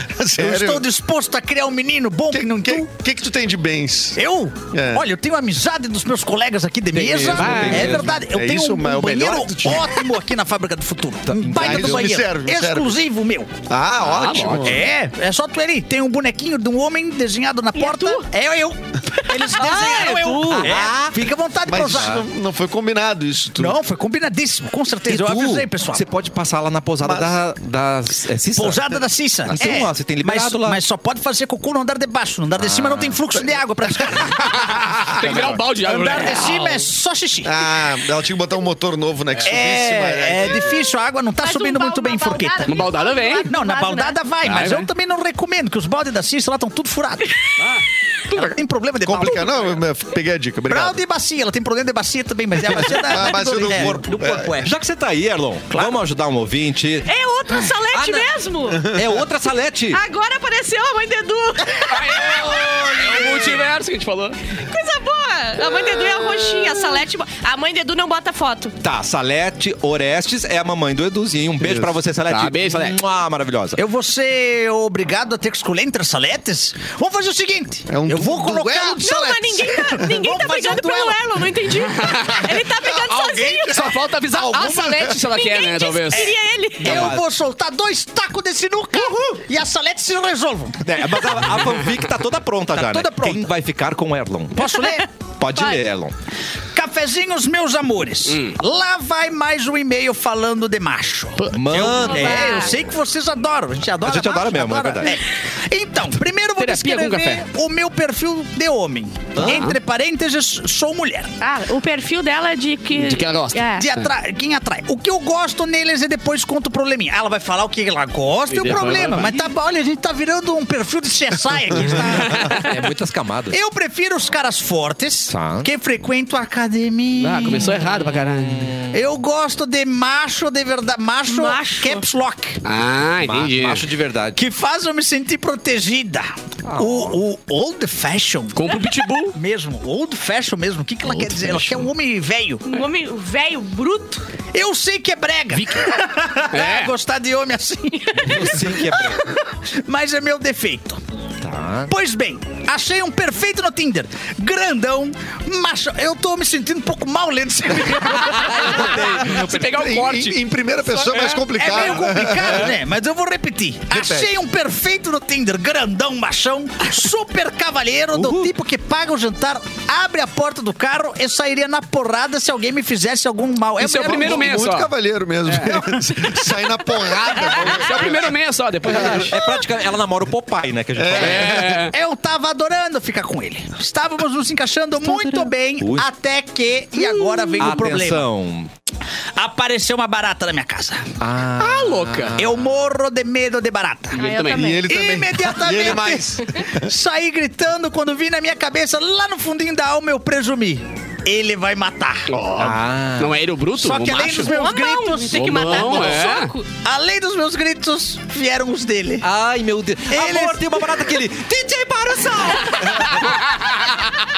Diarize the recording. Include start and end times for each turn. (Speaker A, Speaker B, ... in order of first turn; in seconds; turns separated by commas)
Speaker A: 0.1-0.9, Speaker B: 0.4-2.9, Speaker A: 2.3-5.0, Speaker B: 4.2-13.5, Speaker C: 6.9-8.1, Speaker D: 7.3-8.2, Speaker A: 8.1-10.0, Speaker D: 11.3-12.1, Speaker A: 11.5-12.9, Speaker A: 13.7-14.9, Speaker C: 14.0-14.8, Speaker B: 14.6-22.2, Speaker E: 17.7-18.3, Speaker C: 19.6-20.7, Speaker D: 20.5-21.2, Speaker A: 21.6-23.8, Speaker D: 21.8-22.2, Speaker B: 23.6-26.1, Speaker D: 25.1-30.8, Speaker A: 27.0-27.3, Speaker B: 28.5-37.6, Speaker D: 32.6-33.1, Speaker C: 34.5-36.8, Speaker A: 37.4-40.8, Speaker B: 39.4-42.8, Speaker E: 41.4-44.2, Speaker C: 42.7-43.5, Speaker B: 43.5-47.4, Speaker C: 44.4-44.9, Speaker B: 48.3-49.7, Speaker A: 49.0-51.0, Speaker B: 50.7-54.7, Speaker A: 52.7-54.5, Speaker D: 53.6-53.9, Speaker D: 54.6-57.1, Speaker E: 57.0-58.9, Speaker D: 57.9-58.3, Speaker D: 58.9-60.0, Speaker E: 59.9-63.3, Speaker C: 61.8-64.4, Speaker E: 64.7-68.7, Speaker D: 68.8-73.8, Speaker C: 71.7-73.0, Speaker B: 73.8-81.2, Speaker A: 77.9-80.0, Speaker E: 79.0-84.0, Speaker C: 81.9-82.5, Speaker A: 82.5-85.2, Speaker C: 83.6-86.3, Speaker E: 85.2-87.1, Speaker B: 86.8-90.9, Speaker D: 86.8-87.2, Speaker D: 90.8-94.7, Speaker B: 92.7-93.5, Speaker B: 94.5-95.0, Speaker D: 95.4-96.1, Speaker E: 95.5-95.8, Speaker B: 96.7-111.3, Speaker C: 98.3-98.5, Speaker C: 101.4-101.9, Speaker D: 101.5-102.7, Speaker E: 102.0-102.7, Speaker D: 104.0-105.2, Speaker C: 106.6-107.4, Speaker D: 109.3-109.7, Speaker C: 109.4-109.7, Speaker E: 111.4-113.9, Speaker C: 112.9-114.0, Speaker B: 113.8-122.7, Speaker C: 118.5-119.4, Speaker C: 122.2-122.7, Speaker D: 122.5-123.5, Speaker B: 123.5-127.8, Speaker D: 125.3-125.7, Speaker C: 127.2-128.7, Speaker D: 127.9-129.0, Speaker B: 128.9-132.6, Speaker E: 131.3-132.1, Speaker C: 132.6-133.9, Speaker D: 133.2-134.4, Speaker B: 134.4-142.6, Speaker D: 136.7-137.2, Speaker C: 138.5-139.4, Speaker D: 141.1-141.8, Speaker E: 142.7-144.2, Speaker B: 144.5-151.0, Speaker C: 146.5-146.9, Speaker E: 148.1-148.4, Speaker D: 148.2-149.2, Speaker D: 151.4-151.9, Speaker B: 151.9-158.9, Speaker C: 158.0-161.9, Speaker D: 158.5-159.4, Speaker A: 159.2-162.7, Speaker B: 161.5-174.5, Speaker A: 163.9-164.3, Speaker C: 173.8-174.9, Speaker A: 174.1-179.3, Speaker C: 175.4-175.8, Speaker B: 175.7-176.0, Speaker C: 177.1-179.4, Speaker D: 178.9-181.7, Speaker A: 180.9-181.8, Speaker C: 181.1-181.9, Speaker B: 181.9-188.3, Speaker E: 185.1-185.4, Speaker D: 185.8-186.1, Speaker C: 187.2-187.8, Speaker D: 187.6-188.7, Speaker B: 189.4-191.1, Speaker D: 191.2-192.6, Speaker C: 191.6-192.4, Speaker B: 192.4-194.2, Speaker C: 194.1-194.8, Speaker E: 194.1-194.9, Speaker A: 194.5-196.9, Speaker B: 194.9-202.3, Speaker C: 202.3-204.6, Speaker D: 202.6-203.4, Speaker B: 203.8-206.0, Speaker E: 204.2-206.7, Speaker C: 205.3-206.5, Speaker B: 206.8-209.3, Speaker D: 209.2-213.3, Speaker B: 210.1-211.0, Speaker B: 212.3-213.2, Speaker C: 213.1-214.1